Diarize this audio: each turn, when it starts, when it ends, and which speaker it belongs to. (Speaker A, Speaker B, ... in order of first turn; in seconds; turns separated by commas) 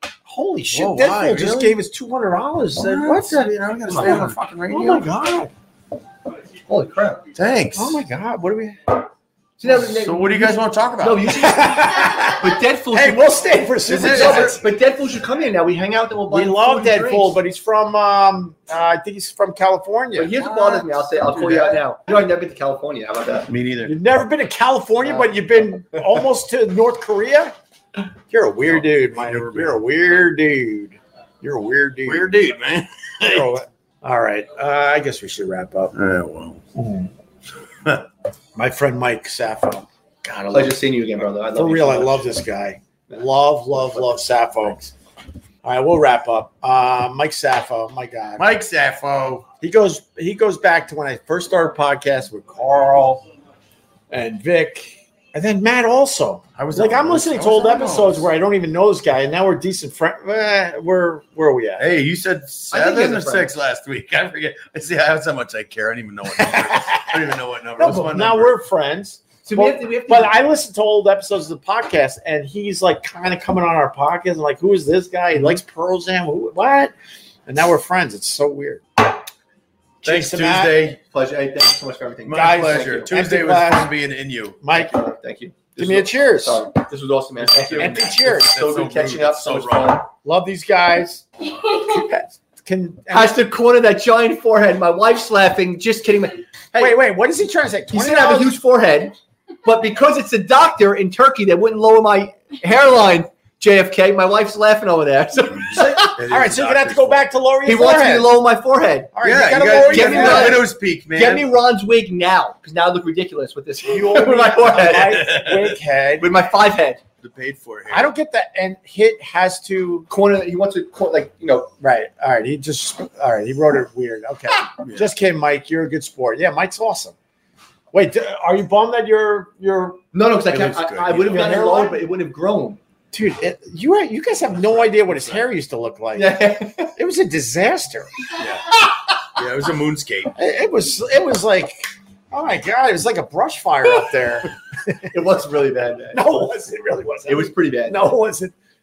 Speaker A: 0.3-5.5, Speaker B: 0.7-1.8, Speaker B: 2.7-5.0, Speaker C: 3.9-4.3, Speaker C: 6.7-7.2, Speaker B: 7.3-8.0, Speaker A: 7.8-9.1, Speaker C: 9.6-17.4, Speaker B: 9.6-11.5, Speaker A: 11.3-14.6, Speaker B: 13.8-14.6, Speaker A: 16.3-20.3, Speaker C: 20.1-23.5, Speaker B: 20.4-21.8, Speaker B: 23.5-24.0, Speaker A: 23.9-32.3, Speaker C: 25.0-25.4, Speaker B: 28.7-29.8, Speaker B: 32.1-33.6, Speaker A: 33.2-36.0, Speaker B: 36.0-36.6, Speaker A: 36.8-37.1, Speaker A: 38.6-40.8, Speaker C: 40.5-42.4, Speaker A: 41.5-44.9, Speaker A: 45.6-48.6, Speaker B: 48.4-49.5, Speaker A: 49.6-53.2, Speaker A: 54.1-61.9, Speaker B: 56.6-58.3, Speaker B: 61.8-68.6, Speaker C: 62.7-63.6, Speaker A: 66.3-76.9, Speaker C: 69.4-70.4, Speaker A: 77.5-79.1, Speaker A: 80.0-80.8, Speaker B: 80.0-81.0, Speaker C: 81.0-83.1, Speaker B: 82.3-84.6, Speaker A: 82.3-83.9, Speaker A: 84.6-84.9, Speaker C: 84.7-90.1, Speaker A: 85.8-86.7, Speaker B: 87.4-90.0, Speaker A: 87.8-88.6, Speaker A: 90.2-93.4, Speaker C: 93.1-97.0, Speaker A: 96.8-98.6, Speaker C: 97.9-106.2, Speaker A: 105.7-108.4, Speaker B: 106.2-107.3, Speaker C: 107.7-115.3, Speaker A: 109.1-110.7, Speaker B: 109.2-111.5, Speaker A: 113.8-116.3, Speaker B: 114.9-115.8, Speaker C: 116.2-117.0, Speaker B: 117.2-118.1, Speaker A: 117.9-120.1, Speaker C: 120.1-121.7, Speaker A: 121.8-127.2, Speaker B: 124.8-125.1, Speaker A: 127.9-130.0, Speaker C: 130.1-132.8, Speaker B: 130.5-131.5, Speaker A: 131.2-132.0, Speaker A: 133.1-138.1, Speaker B: 134.8-135.4, Speaker C: 136.2-136.9, Speaker B: 138.4-140.3, Speaker A: 140.4-145.1, Speaker C: 145.1-146.5, Speaker A: 146.1-148.5, Speaker C: 147.3-148.0